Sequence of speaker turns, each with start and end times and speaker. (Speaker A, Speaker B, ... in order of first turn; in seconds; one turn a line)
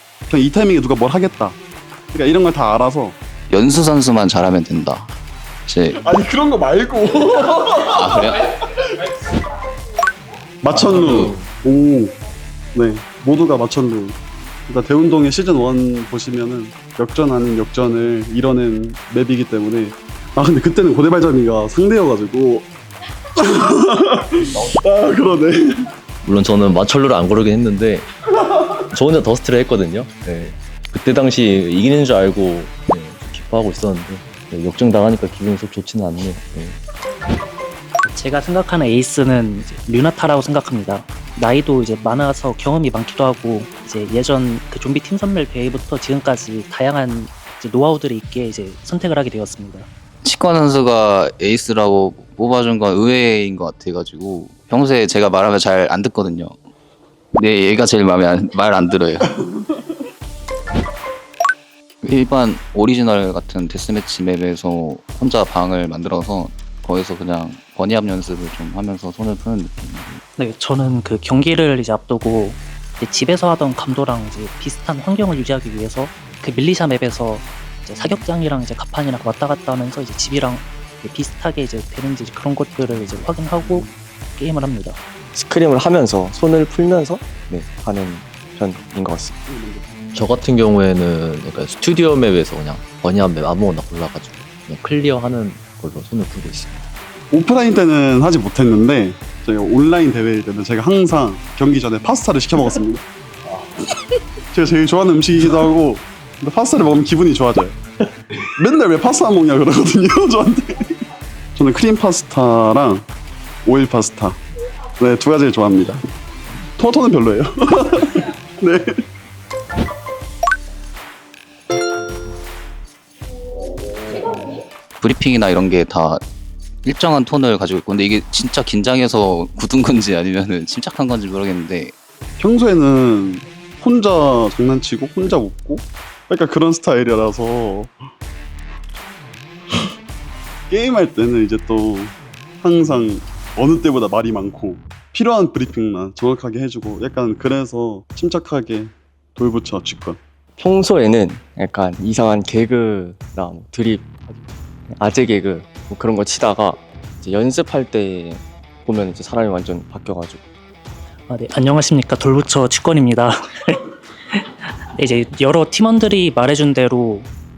Speaker A: 0.3-1.6
Speaker A: 2.1-3.2
Speaker B: 3.5-5.1
Speaker B: 5.7-6.0
Speaker A: 5.9-8.8
Speaker B: 7.9-8.4
Speaker A: 10.6-12.2
Speaker C: 10.7-11.5
Speaker B: 10.9-11.3
Speaker A: 12.8-14.2
Speaker A: 14.7-22.7
Speaker A: 23.4-25.8
Speaker C: 26.2-28.1
Speaker C: 28.9-36.8
Speaker D: 38.0-49.9
Speaker B: 50.2-56.5
Speaker B: 57.4-59.4
Speaker B: 62.0-70.2
Speaker D: 70.4-85.0
Speaker E: 85.3-89.4
Speaker A: 89.5-90.1
Speaker C: 90.1-96.7
Speaker A: 97.3-103.0
Speaker A: 104.5-107.8
Speaker A: 108.5-111.0
Speaker A: 111.5-113.1
Speaker A: 113.7-114.4
Speaker A: 115.0-116.0
Speaker A: 116.8-119.0
Speaker B: 125.0-126.2
Speaker B: 126.8-131.9
Speaker A: 132.4-138.0
Speaker A: 140.7-150.2
Speaker E: 150.6-154.2
Speaker E: 154.9-160.4
Speaker D: 161.3-163.8
Speaker D: 164.3-167.3